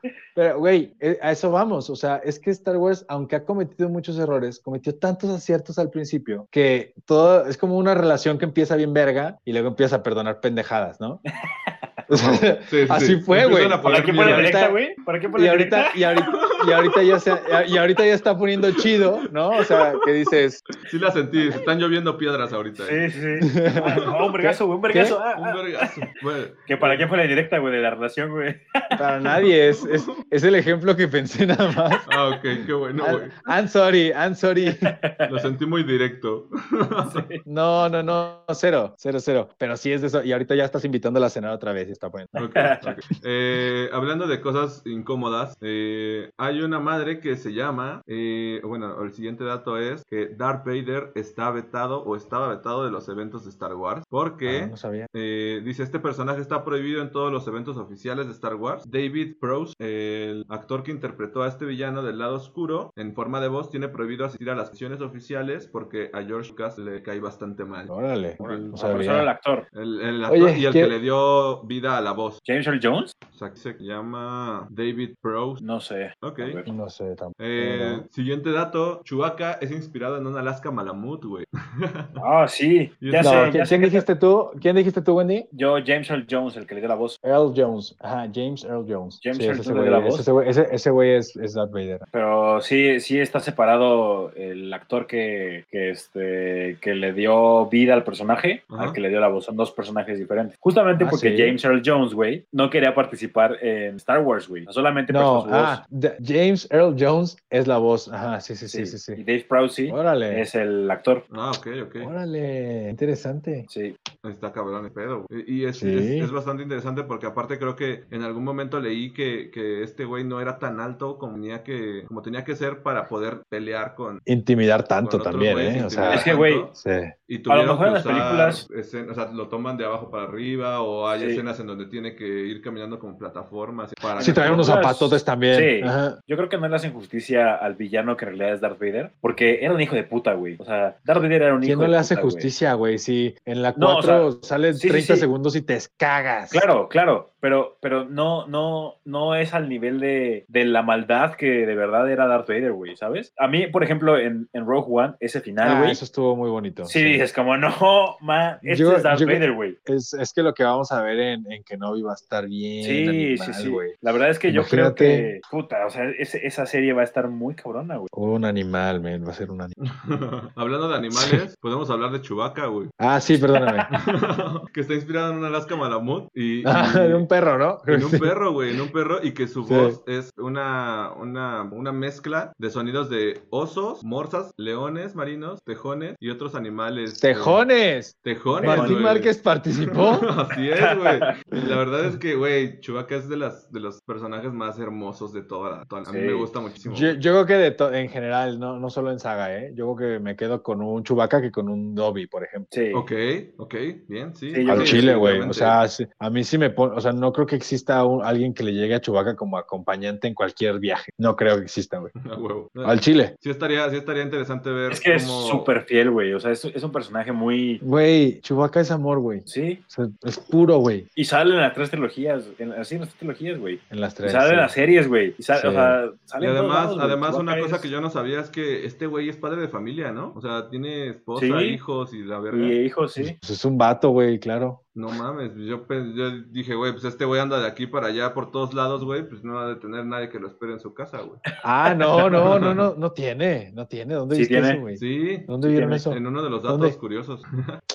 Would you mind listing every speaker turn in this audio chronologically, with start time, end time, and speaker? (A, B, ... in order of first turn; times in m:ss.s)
0:00.3-0:11.2 A
0:11.4-0:12.1 B
0:12.1-0:14.8 A
0:12.2-0:14.6 C
0:13.8-0:16.0 B
0:15.4-0:20.6 A
0:16.3-0:17.0 C
0:18.8-0:20.0 C
0:20.8-0:23.0 C
0:22.8-0:25.9 B
0:23.4-0:25.2 A
0:25.3-0:27.0 C
0:26.7-0:29.0 B
0:29.0-0:32.0 A
0:29.4-0:30.2 C
0:32.1-0:33.4 C
0:33.0-0:34.9 A
0:34.6-0:35.5 B
0:35.2-0:37.3 C
0:37.0-0:37.4 B
0:37.4-0:42.3 A
0:42.4-1:09.1 C
0:42.4-0:42.9 B
0:54.4-0:55.1 A
1:07.9-1:09.3 A
1:08.4-1:09.6 B
1:09.7-1:12.4 C
1:10.3-1:10.9 A
1:12.4-1:13.1 B
1:13.3-1:15.6 C
1:15.6-1:16.7 B
1:16.2-1:16.6 C
1:16.6-1:18.0 A
1:17.4-1:22.2 C
1:22.2-1:24.0 B
1:23.0-1:23.5 C
1:23.2-1:25.5 A
1:25.5-1:27.2 B
1:27.2-1:32.0 A
1:29.2-1:30.2 B
1:32.1-1:45.8 B
1:38.7-1:39.0 C
1:40.9-1:41.6 A
1:45.1-1:49.2 A
1:48.7-1:51.2 B
1:49.9-1:50.4 A
1:51.3-1:52.1 C
1:52.0-1:53.7 A
1:53.7-1:54.0 B
1:54.2-2:04.2 C
1:55.8-1:56.3 A
2:04.2-2:07.1 A
2:05.0-2:06.7 C
2:06.1-2:06.7 B
2:07.3-2:14.7 C
2:07.5-2:08.6 B
2:11.2-2:11.4 B
2:14.2-2:16.2 A
2:14.2-2:22.5 B
2:21.6-2:26.6 A
2:23.8-2:25.3 B
2:26.5-2:36.0 B
2:35.6-2:37.2 A
2:36.8-2:39.8 B
2:38.6-2:43.9 A
2:42.8-2:48.1 B
2:44.5-2:45.3 A
2:48.1-2:49.7 A
2:49.8-2:52.9 C
2:51.1-2:51.4 A
2:53.0-2:53.9 A
2:53.9-2:57.2 C
2:56.6-2:58.3 A
2:57.9-3:07.6 C
2:59.6-3:00.0 A
3:07.2-3:10.3 A
3:08.2-3:09.3 C
3:08.6-3:09.0 B
3:09.8-3:17.2 C
3:10.8-3:11.3 B
3:16.1-3:16.5 B
3:16.9-3:22.7 A
3:22.7-3:23.0 B
3:22.9-3:25.8 C
3:24.5-3:25.4 B
3:24.7-3:32.1 A
3:32.2-3:35.7 C
3:32.8-3:33.3 A
3:34.9-3:37.8 B
3:37.8-3:41.1 A
3:39.5-3:39.8 B
3:41.2-3:47.9 B
3:43.9-3:44.7 A
3:45.5-3:46.0 A
3:46.4-3:52.8 C
3:51.4-3:51.8 B
3:52.5-3:53.4 B
3:53.2-3:54.8 A
3:54.9-4:01.4 C
4:01.6-4:07.0 A
4:01.9-4:02.6 B
4:02.4-4:02.9 C
4:04.3-4:04.8 B
4:04.9-4:07.8 C
4:05.7-4:06.0 B